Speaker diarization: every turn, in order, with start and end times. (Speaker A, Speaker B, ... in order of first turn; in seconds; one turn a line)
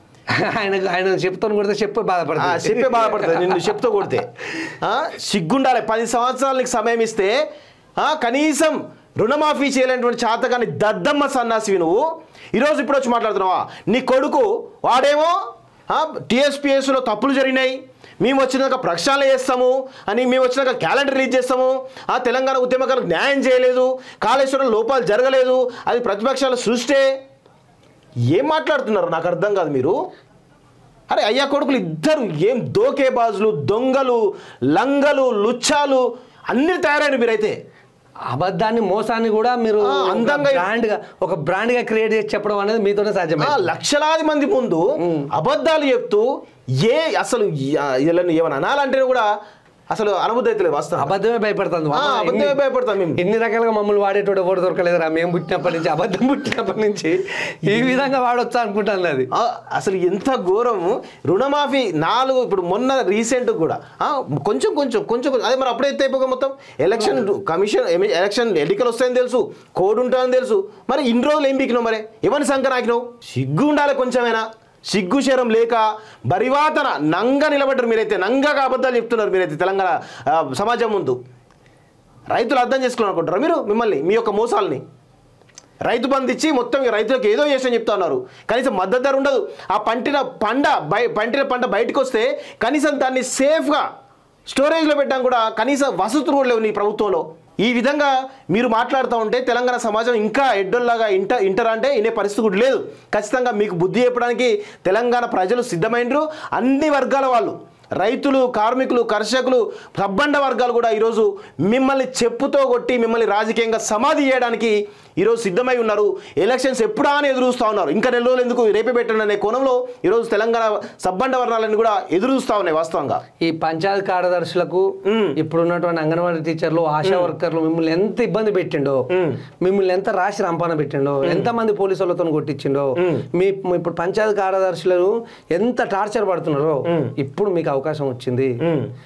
Speaker A: 0.3-3.6
Speaker B: 2.4-4.3
Speaker B: 4.8-7.4
Speaker B: 8.0-15.3
Speaker B: 15.9-27.1
Speaker B: 28.3-29.9
Speaker B: 31.1-37.5
Speaker A: 38.3-43.7
Speaker B: 39.8-40.7
Speaker B: 43.4-46.2
Speaker A: 45.0-45.3
Speaker B: 46.8-49.3
Speaker B: 49.9-51.1
Speaker A: 51.0-52.6
Speaker B: 51.9-53.2
Speaker A: 53.2-59.3
Speaker B: 57.7-58.0
Speaker B: 59.3-81.2
Speaker B: 82.3-84.8
Speaker B: 85.8-93.8
Speaker B: 94.5-123.2
Speaker A: 123.4-129.0
Speaker B: 125.0-125.4
Speaker B: 127.0-127.3
Speaker B: 129.1-129.4
Speaker A: 129.6-138.6
Speaker B: 131.2-131.5
Speaker B: 133.0-133.3
Speaker B: 136.9-137.1
Speaker B: 138.6-138.9